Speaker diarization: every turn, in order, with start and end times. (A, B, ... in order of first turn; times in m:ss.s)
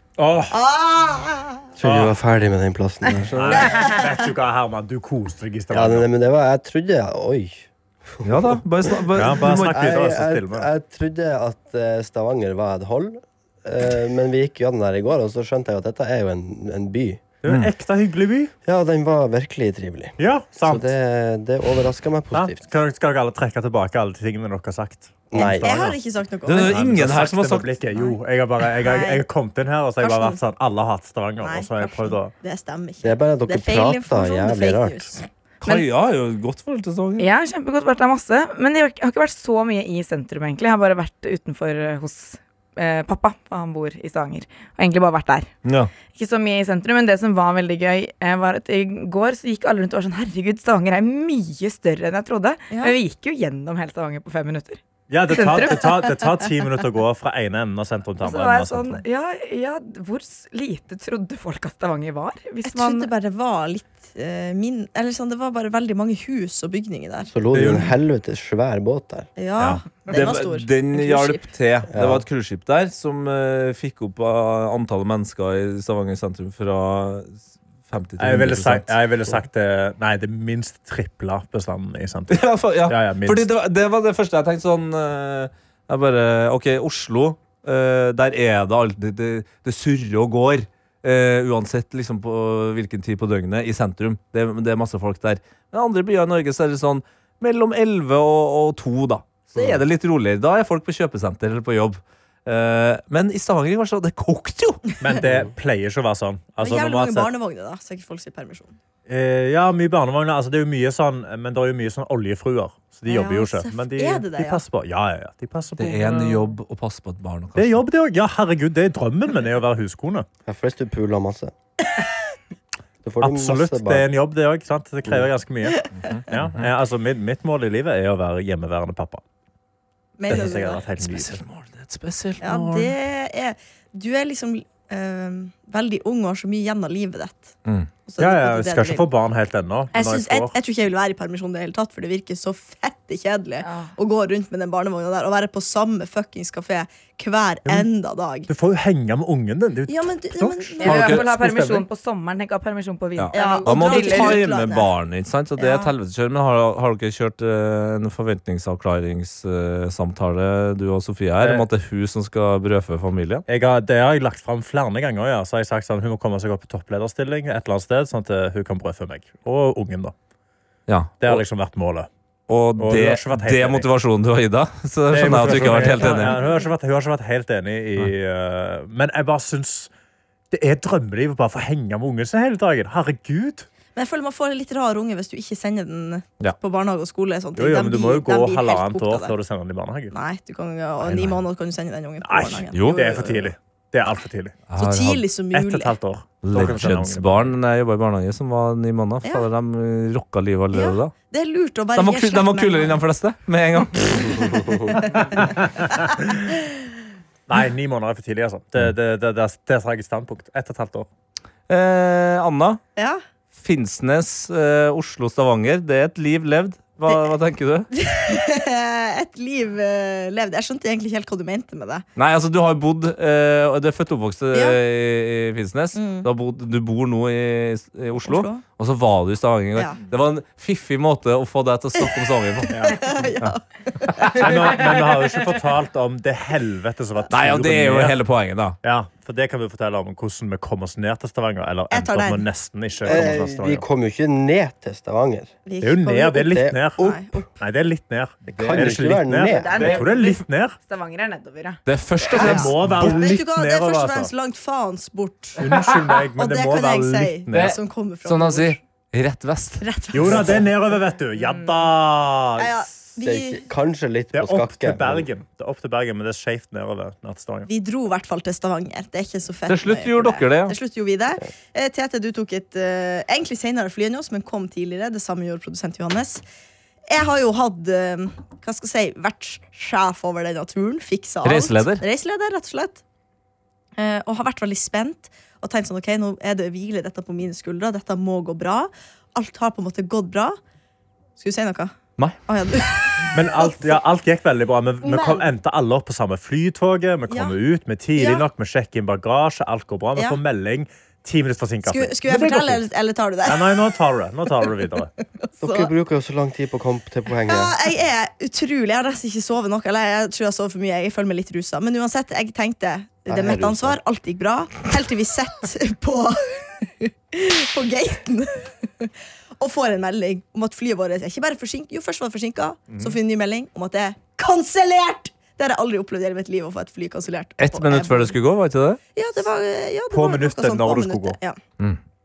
0:00.2-0:00.6 A
0:00.5-0:01.6 B
0:01.8-0:03.6 C
0:01.8-0:02.1 A
0:03.3-0:03.6 D
0:03.3-0:06.1 A
0:05.7-0:17.2 C
0:08.2-0:09.8 D
0:09.2-0:10.7 A
0:17.4-0:18.5 A
0:18.6-0:22.6 C
0:20.2-0:20.9 A
0:22.3-0:32.3 A
0:25.3-0:25.7 C
0:25.4-0:26.8 B
0:26.5-0:27.7 D
0:28.8-0:29.2 B
0:30.0-0:30.4 B
0:31.4-0:35.3 B
0:33.0-0:35.2 C
0:35.6-0:37.3 D
0:37.2-0:45.5 E
0:45.6-0:45.9 D
0:46.1-0:56.2 E
0:52.7-0:53.0 B
0:55.1-0:59.0 A
0:58.2-1:03.1 E
1:02.6-1:07.3 B
1:07.3-1:09.3 C
1:07.5-1:07.9 A
1:09.4-1:11.5 B
1:09.6-1:09.8 A
1:10.1-1:19.4 D
1:11.9-1:12.2 C
1:18.2-1:23.5 A
1:22.3-1:44.8 D
1:45.0-1:47.3 A
1:46.6-1:48.8 B
1:49.1-1:56.5 A
1:53.1-1:54.6 B
1:55.8-1:57.8 D
1:57.6-2:00.3 A
2:00.5-2:01.5 C
2:03.0-2:04.1 C
2:03.2-2:09.2 A
2:06.0-2:06.6 D
2:10.2-2:10.8 B
2:10.3-2:11.4 A
2:11.0-2:12.9 D
2:12.4-2:17.5 B
2:18.1-2:19.1 B
2:18.2-2:20.5 A
2:19.9-2:28.5 B
2:23.6-2:23.9 E
2:28.5-2:31.9 A
2:29.9-2:31.1 B
2:30.8-2:34.4 E
2:30.9-2:31.2 D
2:33.2-2:43.4 D
2:33.3-2:34.9 B
2:35.6-2:35.9 B
2:43.5-2:50.2 A
2:50.9-2:51.4 D
2:51.2-2:52.1 A
2:52.5-2:56.4 D
2:52.8-2:53.9 A
2:55.1-2:59.9 A
3:00.5-3:03.7 A
3:04.0-3:09.4 B
3:07.6-3:10.2 A
3:10.1-3:13.5 B
3:12.2-3:14.6 A
3:12.7-3:13.0 D
3:14.7-3:15.2 D
3:14.8-3:16.0 B
3:15.5-3:17.5 A
3:16.4-3:21.1 D
3:20.7-3:23.0 B
3:22.0-3:25.0 D
3:24.9-3:25.4 B
3:25.3-3:26.4 A
3:27.5-3:31.1 A
3:31.7-3:32.8 D
3:33.5-3:37.9 D
3:37.9-3:42.0 B
3:42.2-3:53.5 D
3:44.5-3:44.8 B
3:46.0-3:46.3 B
3:48.2-3:48.6 B
3:52.7-3:53.0 A
3:52.8-3:54.6 B
3:54.2-3:58.2 A
3:57.3-3:58.8 D
3:58.8-4:03.8 A
4:01.9-4:02.4 B
4:03.0-4:05.5 C
4:03.0-4:03.4 B
4:05.7-4:07.5 B
4:05.8-4:10.8 A
4:06.5-4:06.8 C
4:08.5-4:08.9 D
4:08.6-4:09.8 C
4:09.5-4:11.8 E
4:09.8-4:10.1 D
4:11.9-4:13.1 D
4:12.2-4:15.6 B
4:12.3-4:14.3 A
4:15.6-4:17.8 A
4:15.6-4:16.1 D
4:16.4-4:18.8 B
4:17.5-4:20.4 D
4:19.8-4:20.6 B
4:20.1-4:22.8 A
4:22.6-4:23.7 B
4:23.2-4:25.3 C
4:24.3-4:27.7 A
4:27.7-4:36.4 B
4:29.7-4:30.8 D
4:37.1-4:43.0 B
4:41.4-4:42.0 D
4:44.0-4:50.6 B
4:51.4-4:51.9 B
4:52.5-4:53.9 B
4:53.3-5:02.8 A
4:55.0-4:55.4 B
4:57.3-4:57.6 B
4:58.2-4:58.5 B
5:01.8-5:03.9 B
5:03.5-5:05.1 A
5:05.4-5:05.9 B
5:05.6-5:07.8 C
5:07.5-5:28.4 B
5:13.3-5:14.0 C
5:22.9-5:23.2 A
5:27.6-5:29.0 D
5:29.2-5:31.6 B
5:30.1-5:31.4 A